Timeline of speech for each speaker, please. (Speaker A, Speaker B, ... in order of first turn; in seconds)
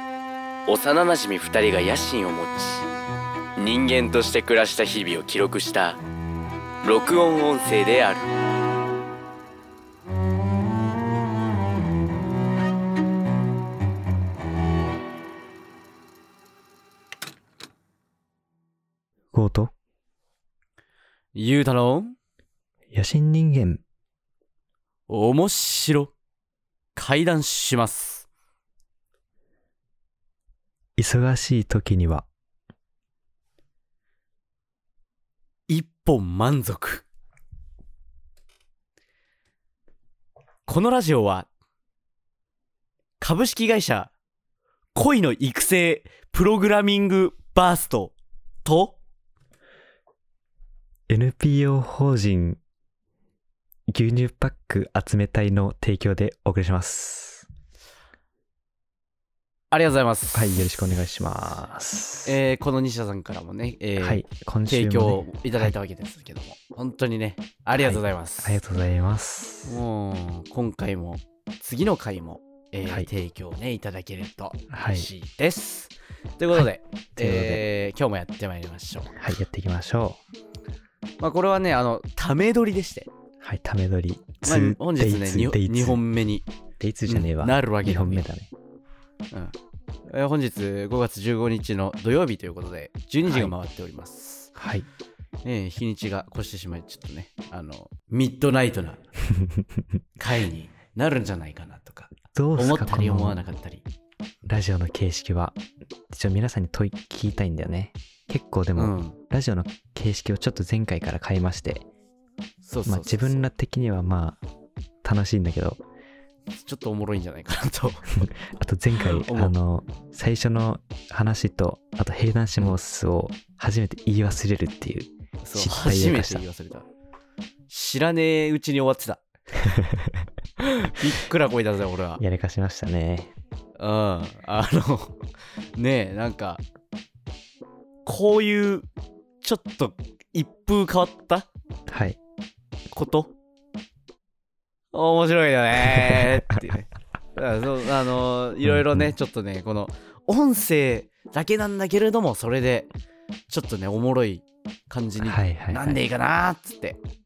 Speaker A: 0.7-2.9, 3.6-6.0, 6.8-8.3, 21.4-22.1, 25.1-26.1, 26.9-28.3, 35.7-37.0, 40.7-41.5, 43.2-44.1, 44.9-48.1, 48.6-49.0, 59.7-60.7, 62.3-68.6, 69.7-79.1, 81.2-83.1, 84.4-86.5, 87.1-88.2, 90.1-94.5, 95.5-99.0, 100.2-103.8, 108.8-109.2, 112.6-113.5, 116.6-118.3, 119.0-119.5, 125.4-126.9, 127.7-129.2, 130.6-132.2, 133.8-135.2, 135.8-136.6, 138.1-138.9, 139.4-141.5, 142.9-143.3, 144.9-152.9, 153.5-157.0
Speaker B: 19.3-19.7, 22.9-23.8, 31.0-32.3, 51.1-52.6, 53.9-57.5, 60.3-62.4, 64.0-65.8, 67.8-69.8, 74.7-75.1, 76.5-77.7, 79.2-80.2, 83.4-86.0, 86.8-88.5, 93.3-93.5, 94.6-94.9, 99.3-99.8, 102.3-103.4, 104.5-105.6, 106.1-111.9, 112.8-114.4, 115.0-115.8, 118.2-126.4, 129.6-130.2, 132.2-133.3, 141.9-142.2, 148.6-149.1, 155.2-156.0